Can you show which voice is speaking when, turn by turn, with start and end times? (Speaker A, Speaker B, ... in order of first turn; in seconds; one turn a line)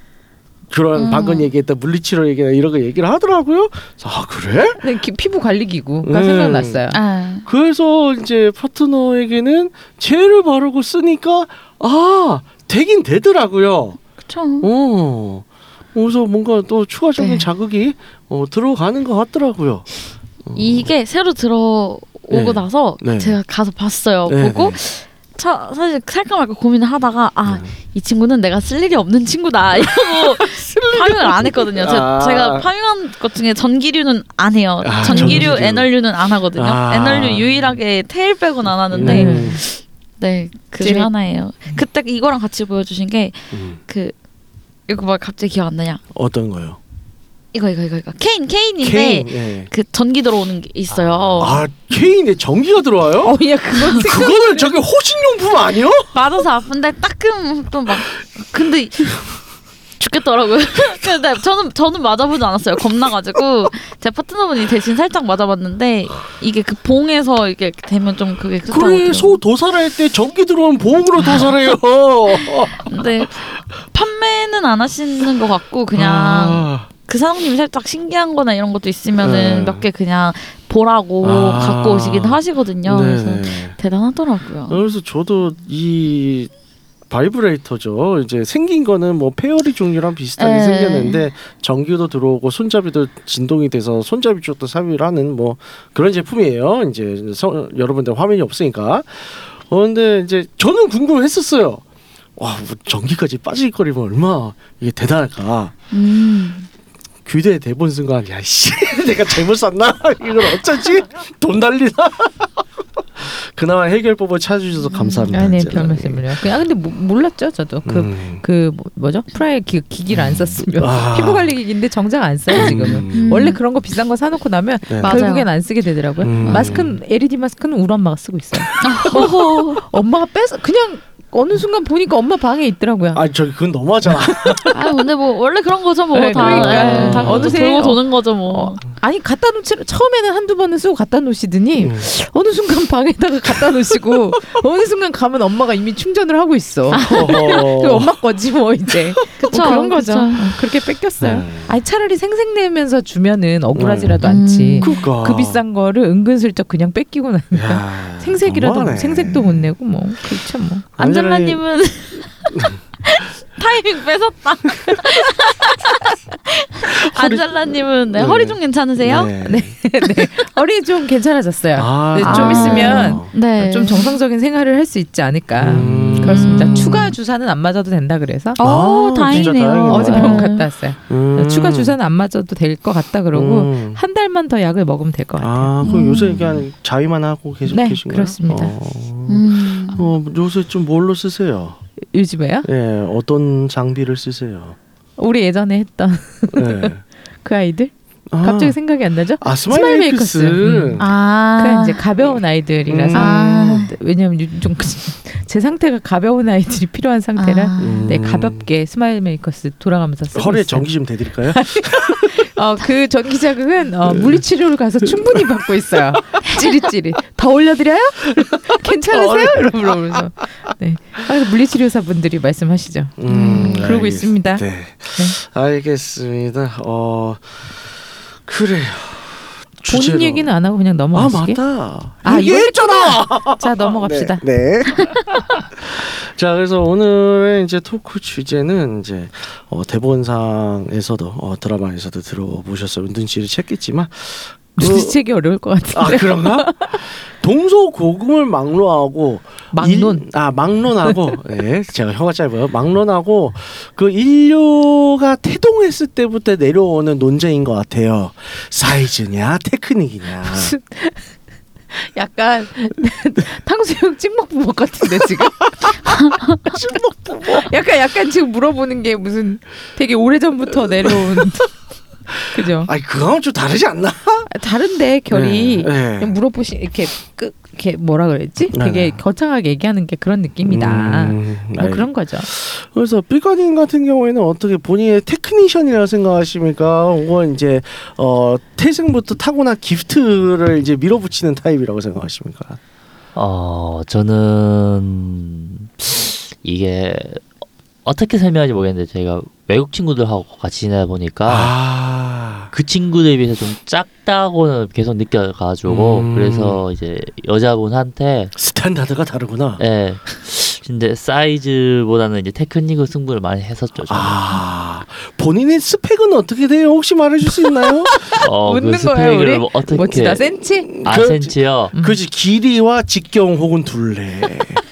Speaker A: 0.7-4.8
Speaker B: 0.9-1.5
Speaker C: 4.8-7.0
Speaker A: 6.0-6.8
Speaker B: 6.9-7.5
Speaker A: 7.4-14.0
Speaker B: 14.2-14.7
Speaker A: 14.6-19.9
Speaker B: 17.2-17.4
Speaker A: 20.4-20.9
Speaker B: 20.5-44.1
Speaker A: 22.3-23.4
Speaker A: 24.3-24.8
Speaker A: 27.4-27.7
Speaker A: 29.8-32.7
Speaker A: 34.8-35.9
Speaker C: 35.1-35.5
Speaker A: 36.5-37.5
Speaker A: 38.9-39.6
Speaker C: 39.0-39.6
Speaker C: 40.8-41.1
Speaker A: 43.5-43.8
Speaker B: 44.9-46.0
Speaker A: 46.1-46.8
Speaker B: 47.5-51.6
Speaker A: 48.8-49.7
Speaker A: 51.4-53.4
Speaker C: 53.2-54.7
Speaker A: 53.9-56.1
Speaker B: 56.1-59.3
Speaker B: 60.0-69.4
Speaker A: 68.7-72.8
Speaker B: 72.5-84.8
Speaker A: 75.9-76.9
Speaker A: 79.2-79.9
Speaker A: 81.2-83.7
Speaker A: 84.7-86.5
Speaker A: 87.1-101.8
Speaker B: 90.4-91.2
Speaker A: 102.4-105.7
Speaker B: 105.9-106.7
Speaker A: 107.2-112.6
Speaker A: 113.2-116.3
Speaker B: 114.9-115.4
Speaker C: 115.3-133.2
Speaker A: 117.8-118.4
Speaker A: 120.1-121.5
Speaker A: 122.5-123.4
Speaker B: 123.1-123.6
Speaker A: 124.9-125.2
Speaker B: 125.0-125.5
Speaker A: 126.2-127.0
Speaker B: 126.4-126.8
Speaker B: 128.8-129.8
Speaker A: 133.1-134.8
Speaker C: 134.2-134.7
Speaker B: 134.7-138.8
Speaker C: 136.1-160.9
Speaker A: 136.4-137.6
Speaker A: 141.8-142.1
Speaker B: 146.9-147.4
Speaker A: 146.9-148.1
Speaker B: 149.4-150.6
Speaker A: 151.2-151.7
Speaker A: 153.7-154.2
Speaker B: 154.2-155.1
Speaker A: 154.8-155.6
Speaker A: 157.5-159.7
Speaker A: 161.0-161.6
Speaker B: 161.0-169.3
Speaker A: 162.5-162.8
Speaker A: 166.9-167.5
Speaker A: 168.1-169.8
Speaker C: 169.4-178.6
Speaker A: 171.8-173.3
Speaker B: 172.2-174.2
Speaker A: 175.6-177.0
Speaker D: 175.8-176.1
Speaker B: 176.2-177.1
Speaker B: 178.6-180.7
Speaker A: 178.6-180.5
Speaker C: 179.3-185.8
Speaker A: 181.1-181.9
Speaker A: 183.3-184.0
Speaker A: 185.4-191.8
Speaker B: 185.8-186.6
Speaker C: 187.7-188.7
Speaker B: 189.3-190.1
Speaker C: 192.1-192.7
Speaker A: 192.6-194.8
Speaker C: 195.2-210.9
Speaker A: 196.5-197.0
Speaker A: 198.3-198.8
Speaker A: 199.4-201.1
Speaker B: 201.0-202.0
Speaker A: 202.9-203.9
Speaker B: 203.1-203.9
Speaker B: 207.4-208.1
Speaker A: 207.8-208.7
Speaker A: 210.3-212.5
Speaker C: 211.4-224.6
Speaker A: 214.1-214.4
Speaker A: 215.0-216.2
Speaker A: 218.7-220.2
Speaker A: 223.2-227.4
Speaker B: 223.3-223.9
Speaker A: 228.4-230.5
Speaker C: 229.9-231.6
Speaker A: 231.1-235.1
Speaker C: 232.2-234.4
Speaker A: 235.8-245.2
Speaker C: 244.8-247.0
Speaker A: 245.9-260.7
Speaker C: 249.7-250.3
Speaker C: 260.5-261.2
Speaker C: 261.9-266.2
Speaker A: 265.3-265.9
Speaker A: 266.6-267.7
Speaker C: 267.5-271.7
Speaker A: 271.0-271.4
Speaker A: 272.3-274.5
Speaker C: 272.5-272.9
Speaker C: 274.5-282.5
Speaker A: 275.3-276.4
Speaker A: 278.7-279.2
Speaker A: 280.6-292.8
Speaker D: 293.3-297.5
Speaker D: 298.0-301.7
Speaker A: 301.5-302.7
Speaker D: 302.7-308.5
Speaker A: 305.9-306.8
Speaker A: 308.6-309.8
Speaker D: 309.8-314.6
Speaker A: 314.1-318.3
Speaker C: 318.3-320.9
Speaker D: 318.4-320.5
Speaker A: 320.9-324.8
Speaker D: 321.0-321.9
Speaker C: 321.9-322.2